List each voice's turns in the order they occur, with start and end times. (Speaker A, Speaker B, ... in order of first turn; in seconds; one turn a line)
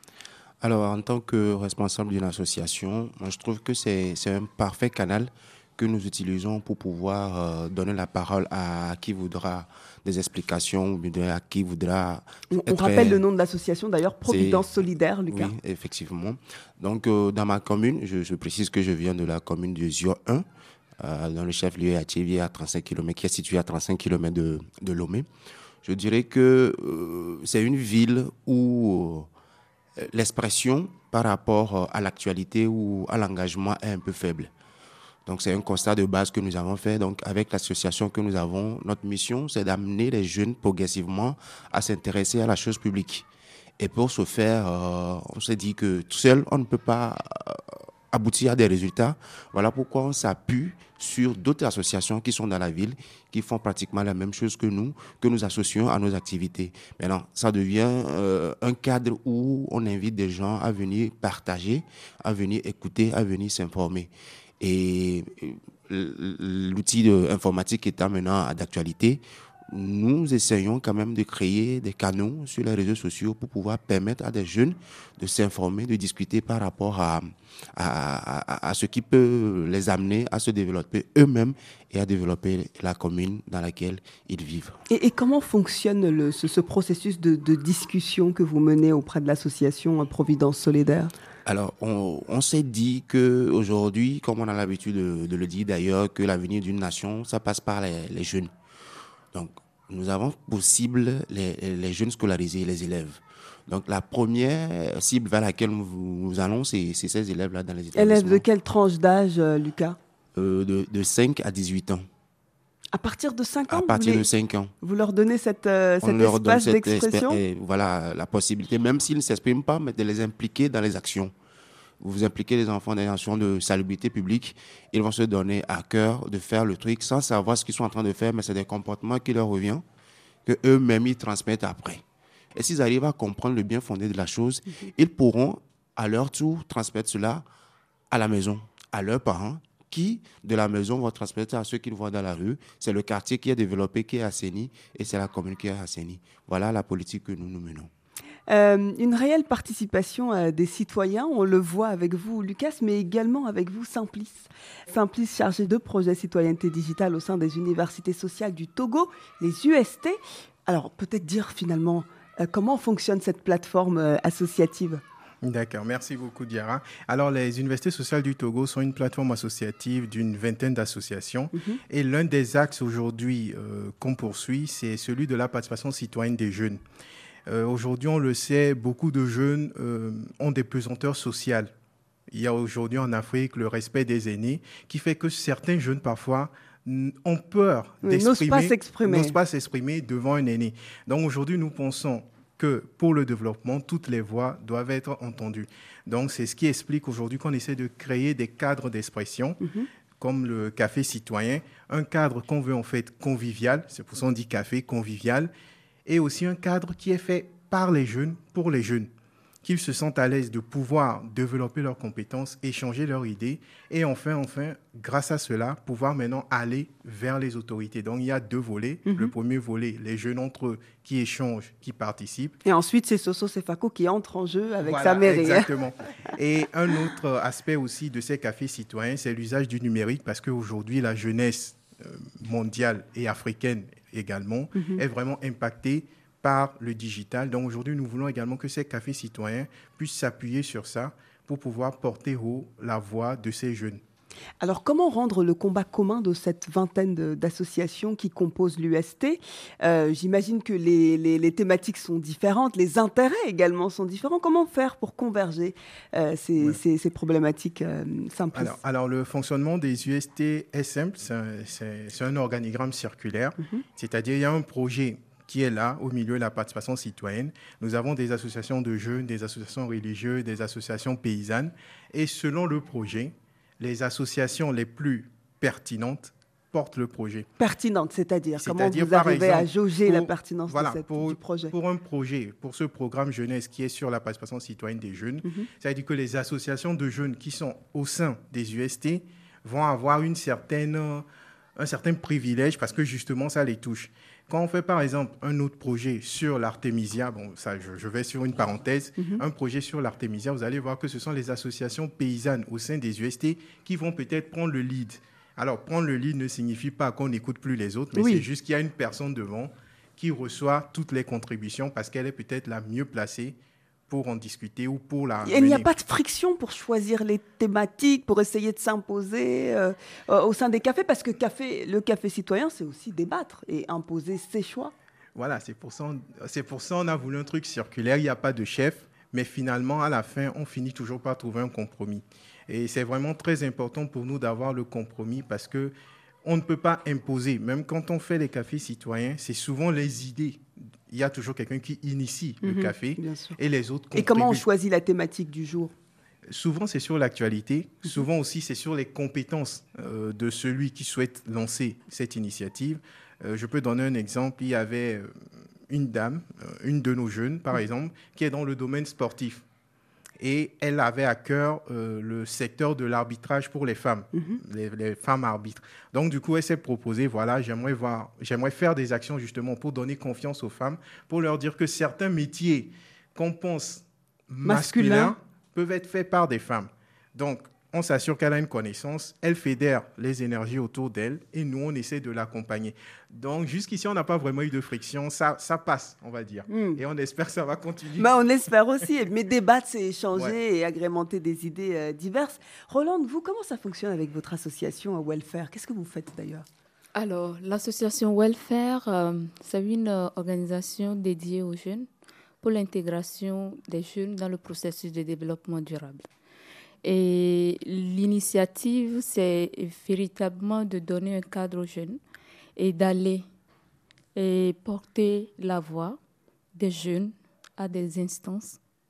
Speaker A: 0.6-13.2
Speaker B: 12.5-15.5
Speaker A: 14.3-14.7
Speaker A: 15.3-20.4
Speaker A: 21.0-25.3
Speaker A: 25.8-29.3
Speaker A: 30.0-34.5
Speaker A: 35.3-43.2
Speaker A: 43.8-84.8
Speaker B: 84.9-91.1
Speaker A: 91.5-98.5
Speaker A: 99.3-108.4
Speaker B: 108.0-110.0
Speaker A: 110.4-112.0
Speaker B: 112.9-114.3
Speaker A: 113.7-114.7
Speaker B: 114.8-117.4
Speaker A: 116.0-121.3
Speaker A: 122.0-129.8
Speaker A: 130.5-132.0
Speaker A: 132.6-137.4
Speaker A: 138.1-147.9
Speaker B: 148.5-165.0
Speaker C: 165.4-176.8
Speaker B: 171.5-171.8
Speaker C: 177.5-181.7
Speaker C: 182.3-199.6
Speaker B: 188.0-189.4
Speaker B: 199.6-199.9
Speaker C: 200.2-205.5
Speaker C: 206.1-209.1
Speaker C: 209.6-222.6
Speaker B: 219.1-219.3
Speaker B: 222.7-225.7
Speaker C: 224.9-244.0
Speaker B: 234.8-235.0
Speaker B: 244.6-258.8
Speaker C: 258.5-277.5
Speaker B: 277.6-281.7
Speaker C: 278.6-291.2
Speaker C: 291.8-313.6
Speaker B: 299.2-299.4
Speaker B: 308.1-308.5
Speaker C: 314.1-315.9
Speaker B: 315.4-324.9
Speaker C: 325.4-335.9
Speaker C: 336.4-344.6
Speaker B: 342.6-343.6
Speaker B: 344.1-345.9
Speaker C: 346.5-355.3
Speaker C: 355.9-359.6
Speaker C: 360.4-388.3
Speaker B: 364.3-364.6
Speaker B: 374.6-375.4
Speaker B: 386.7-387.0
Speaker B: 388.2-396.7
Speaker D: 397.1-402.1
Speaker D: 402.6-406.3
Speaker D: 407.0-412.2
Speaker D: 412.8-413.4
Speaker D: 414.4-416.2
Speaker D: 416.8-418.8